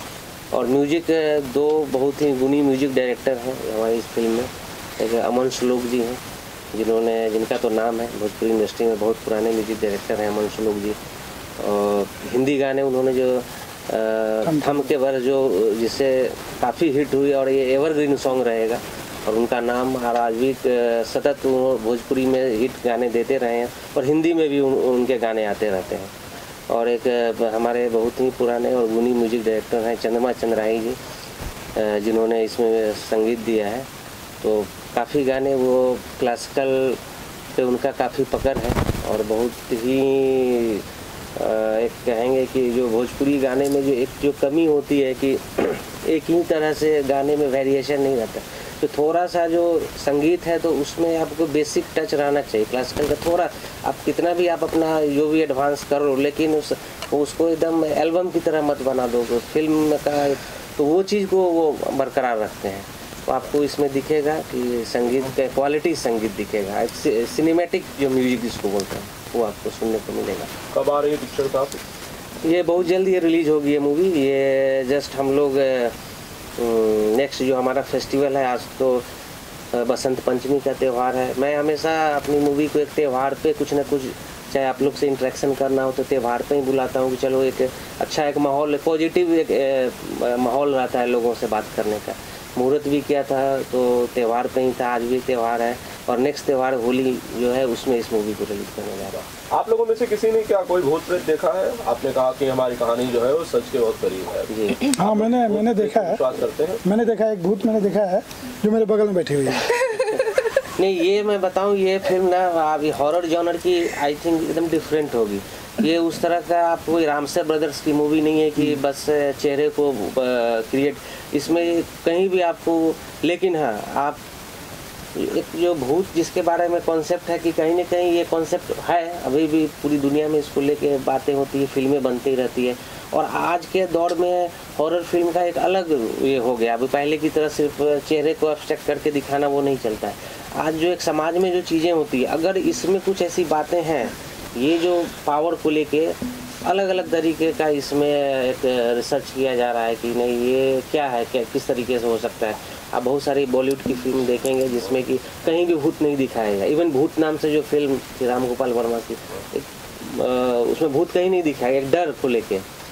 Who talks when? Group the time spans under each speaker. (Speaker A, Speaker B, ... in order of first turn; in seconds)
Speaker A: 0.5-6.2, 6.7-11.0, 11.6-26.1, 26.7-31.0, 31.8-33.9, 34.4-37.0, 37.5-40.8, 41.4-70.5, 72.4-75.9, 76.6-79.0, 79.7-99.2, 104.5-104.8, 110.8-124.2, 125.2-162.7
Speaker B: 14.5-14.8, 105.0-106.2, 106.8-109.6
Speaker C: 70.7-71.8, 99.5-106.8